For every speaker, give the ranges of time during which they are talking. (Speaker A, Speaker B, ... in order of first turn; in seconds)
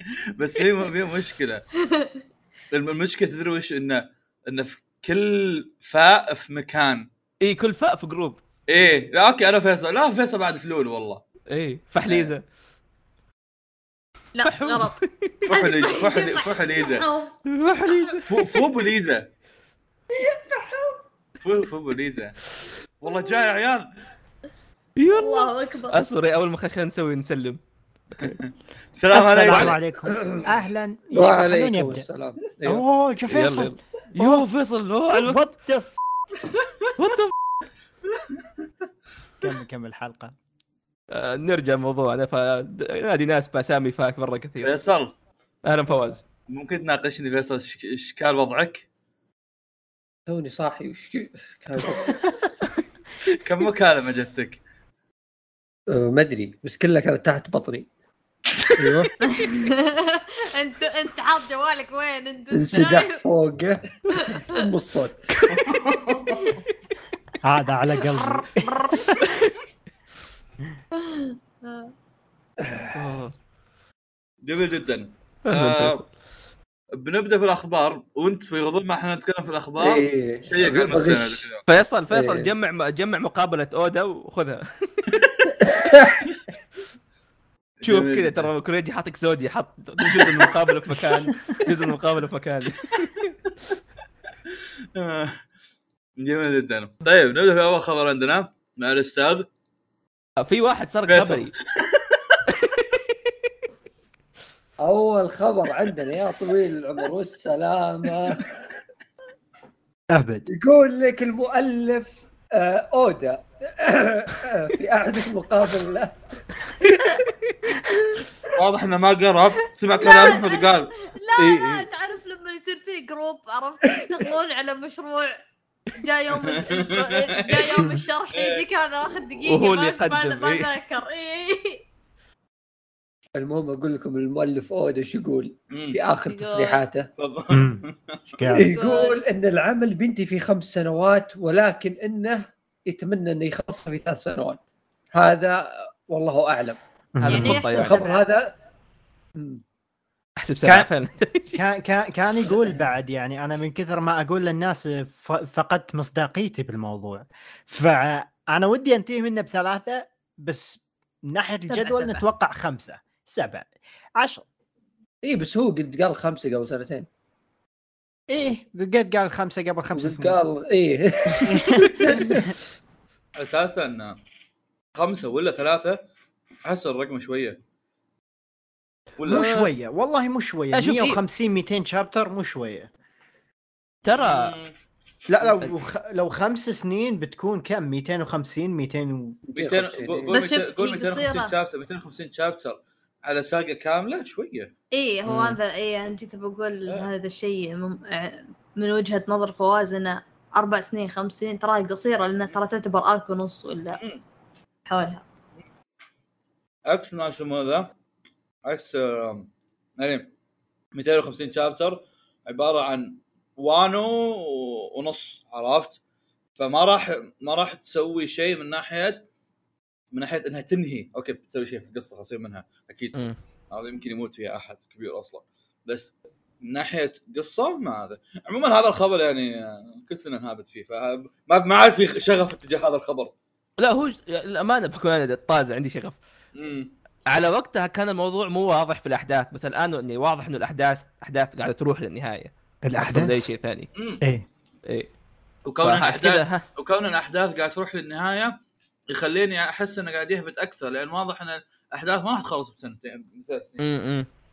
Speaker A: 0.3-1.6, 2.7-7.1, 8.7-11.2, 15.5-17.1, 18.2-19.3, 21.4-22.4, 23.0-23.9, 28.2-29.8, 44.6-45.1, 46.5-48.8, 53.4-54.6, 65.5-66.5, 74.4-76.0, 77.0-81.6, 85.1-85.5, 87.8-88.5, 90.1-90.5, 95.0-95.4, 96.2-99.5, 101.1-102.4, 118.5-120.9, 126.3-128.6, 135.7-136.0, 137.2-138.5, 173.4-174.2, 174.9-176.0, 176.7-177.6, 179.2-179.5, 184.2-184.7, 189.5-194.7, 203.9-204.2, 206.8-207.9, 208.6-210.3, 210.9-216.0, 216.6-219.2, 220.1-223.2, 223.7-233.3, 236.5-236.9, 243.9-244.2, 245.6-248.6, 249.1-253.8
Speaker B: 1.9-2.2, 14.3-17.4, 25.1-26.0, 59.3-63.2, 64.1-64.6, 68.0-69.1, 70.9-71.9, 120.0-125.3, 125.9-131.8, 136.2-136.8, 138.6-139.2, 147.3-148.2, 161.7-162.2, 190.3-191.5, 194.9-204.0, 204.9-205.2
Speaker C: 7.4-8.4, 11.5-12.4, 14.4-15.5, 17.5-18.6, 25.0-27.6, 29.5-29.7, 33.3-35.4, 37.0-37.3, 41.1-44.7, 45.6-46.2, 72.9-73.3, 75.4-76.0, 81.7-85.1, 87.8-93.3, 100.4-101.5, 102.5-103.1, 121.4-121.8, 129.4-130.7, 147.2-148.0, 150.4-151.6, 179.2-179.7, 180.7-181.2, 184.0-184.5, 195.2-195.6, 233.8-236.2, 237.3-243.9, 245.8-246.6, 253.8-254.3
Speaker D: 29.1-32.1, 32.6-34.5, 35.1-35.9, 39.4-40.3, 67.4-69.2, 110.1-110.5, 137.5-137.8, 138.4-138.7, 147.1-147.6, 150.6-150.9, 151.5-164.4, 168.3-170.4, 171.4-172.5, 179.3-182.9, 185.3-189.4, 242.8-243.5, 244.2-244.4
Speaker E: 30.1-30.5, 31.1-32.8, 50.3-52.3, 55.9-57.9, 58.8-59.1, 62.5-65.2, 72.6-73.1, 79.8-81.4, 82.1-82.5, 85.6-86.3, 104.8-108.5, 110.5-116.2, 133.3-137.1, 138.5-144.6, 145.1-146.8, 147.7-148.5, 149.3-149.6, 165.2-167.1, 169.9-172.5, 189.5-190.3